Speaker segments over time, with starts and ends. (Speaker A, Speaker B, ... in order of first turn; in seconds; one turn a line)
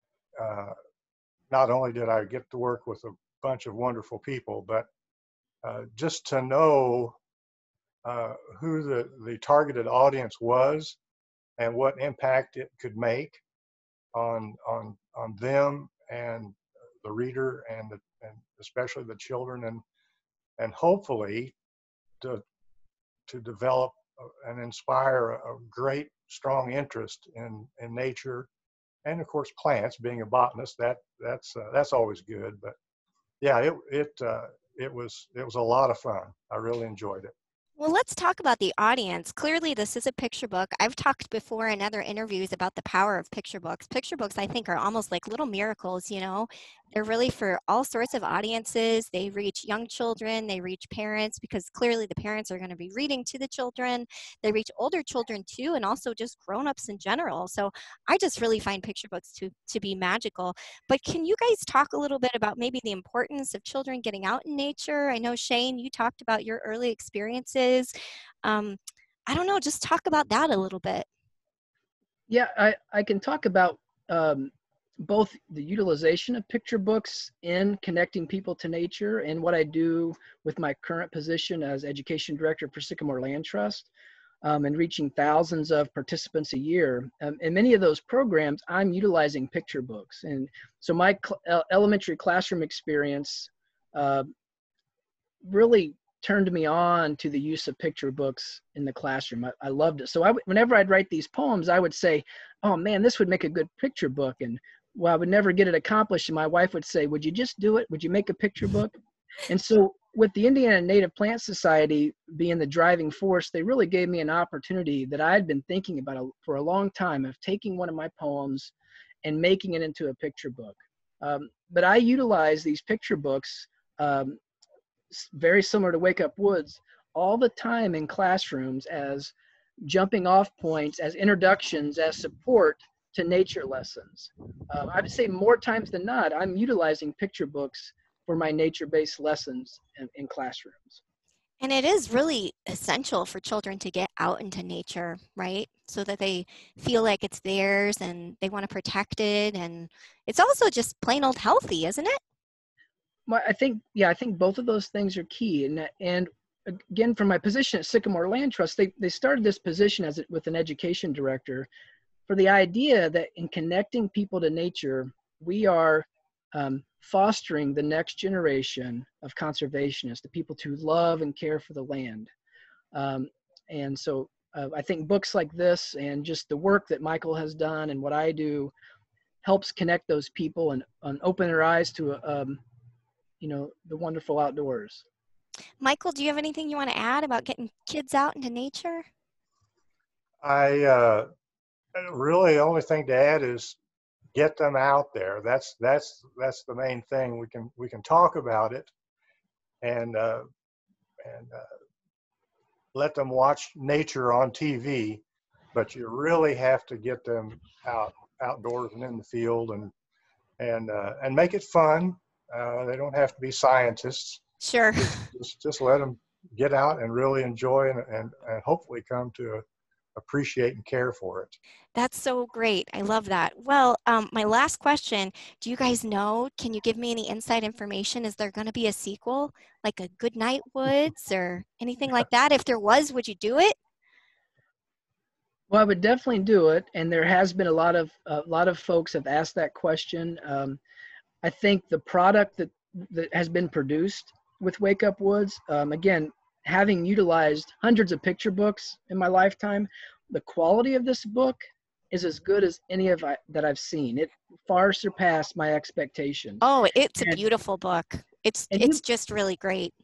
Speaker A: 0.4-0.7
Speaker A: 1.5-4.9
Speaker A: 5.6-7.2
Speaker A: 8.1-11.0
Speaker A: 11.6-13.4
Speaker A: 14.1-19.8
Speaker A: 20.6-21.6
Speaker A: 23.3-28.5
Speaker A: 29.1-32.8
Speaker A: 33.4-37.3
Speaker B: 37.8-71.1
Speaker C: 72.3-83.9
Speaker C: 84.4-94.3
Speaker C: 95.4-109.0
Speaker C: 109.5-118.7
Speaker C: 119.2-124.4
Speaker C: 125.1-141.0
Speaker B: 141.6-152.2
Speaker C: 153.3-161.7
Speaker C: 162.3-172.3
Speaker C: 172.9-178.7
Speaker C: 179.4-182.6
Speaker C: 183.4-185.1
Speaker B: 185.8-189.0
Speaker A: 190.4-191.3
Speaker A: 192.0-193.8
Speaker A: 194.3-198.9
Speaker A: 199.8-200.4
Speaker A: 201.2-201.7
Speaker A: 202.9-205.2
Speaker A: 205.7-209.9
Speaker A: 210.6-214.4
Speaker B: 214.6-215.2
Speaker A: 215.0-219.6
Speaker A: 220.2-221.6
Speaker B: 221.9-233.8
Speaker C: 235.7-240.8
Speaker C: 241.4-256.6
Speaker B: 256.6-259.9
Speaker C: 258.7-259.0